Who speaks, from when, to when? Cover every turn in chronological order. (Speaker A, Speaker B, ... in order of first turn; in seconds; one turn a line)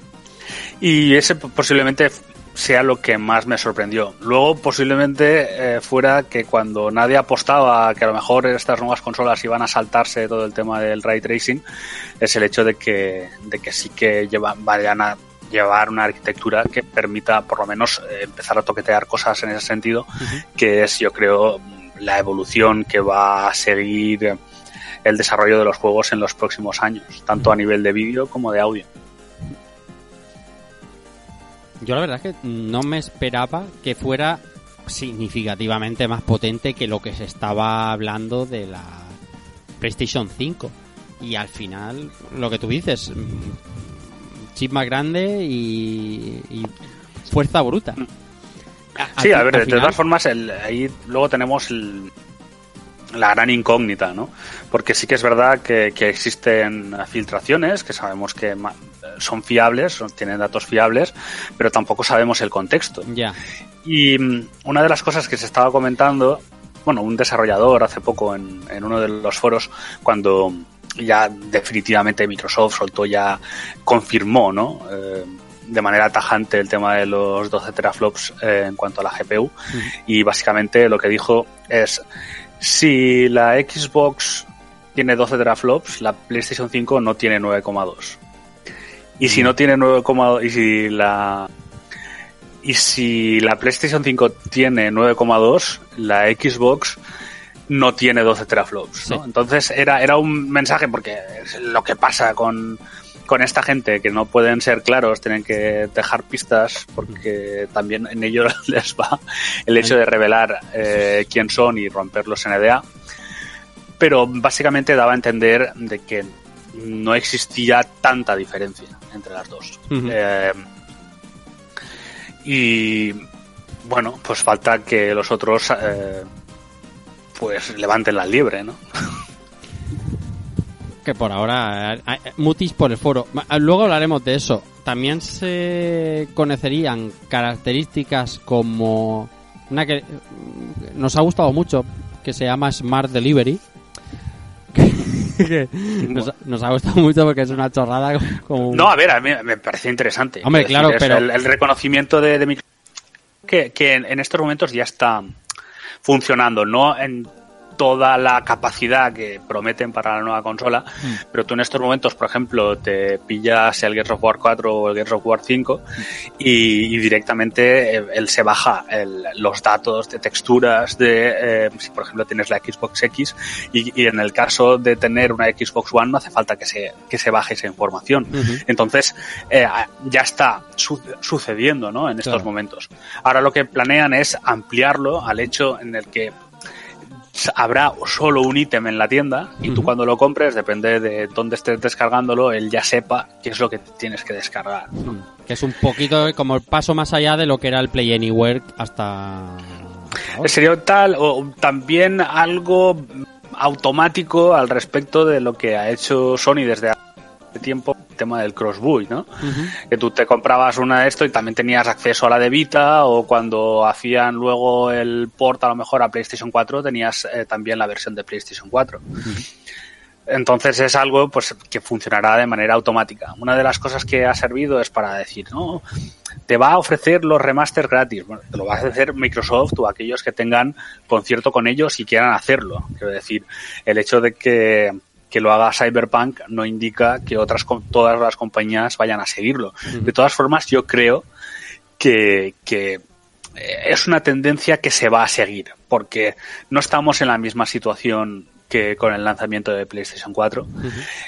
Speaker A: 0.8-11.6
Speaker A: 12.2-24.4
Speaker A: 25.0-28.9
Speaker B: 31.8-39.2
Speaker B: 39.8-46.7
Speaker B: 47.3-48.0
Speaker B: 49.0-50.0
Speaker A: 49.2-52.1
Speaker A: 53.1-63.1
Speaker B: 63.1-63.4
Speaker A: 63.8-79.5
Speaker A: 80.1-82.0
Speaker A: 82.6-88.2
Speaker A: 89.2-91.5
Speaker B: 89.2-89.5
Speaker A: 92.6-97.0
Speaker A: 97.7-112.8
Speaker A: 114.0-120.6
Speaker B: 119.9-120.1
Speaker A: 122.4-123.2
Speaker A: 123.8-126.3
Speaker A: 127.4-129.2
Speaker B: 131.0-143.6
Speaker B: 144.7-148.9
Speaker A: 148.7-152.6
Speaker B: 150.4-151.2
Speaker A: 153.4-155.3
Speaker A: 156.0-165.8
Speaker A: 166.4-186.3
Speaker B: 178.3-178.6
Speaker A: 187.3-195.1
Speaker B: 189.7-189.9
Speaker B: 195.0-200.5
Speaker A: 200.4-206.9
Speaker A: 207.5-209.3
Speaker B: 209.4-209.7
Speaker A: 209.8-219.0
Speaker A: 220.3-225.8
Speaker A: 226.5-241.2
Speaker A: 242.0-243.0
Speaker A: 243.6-250.8
Speaker B: 250.8-251.1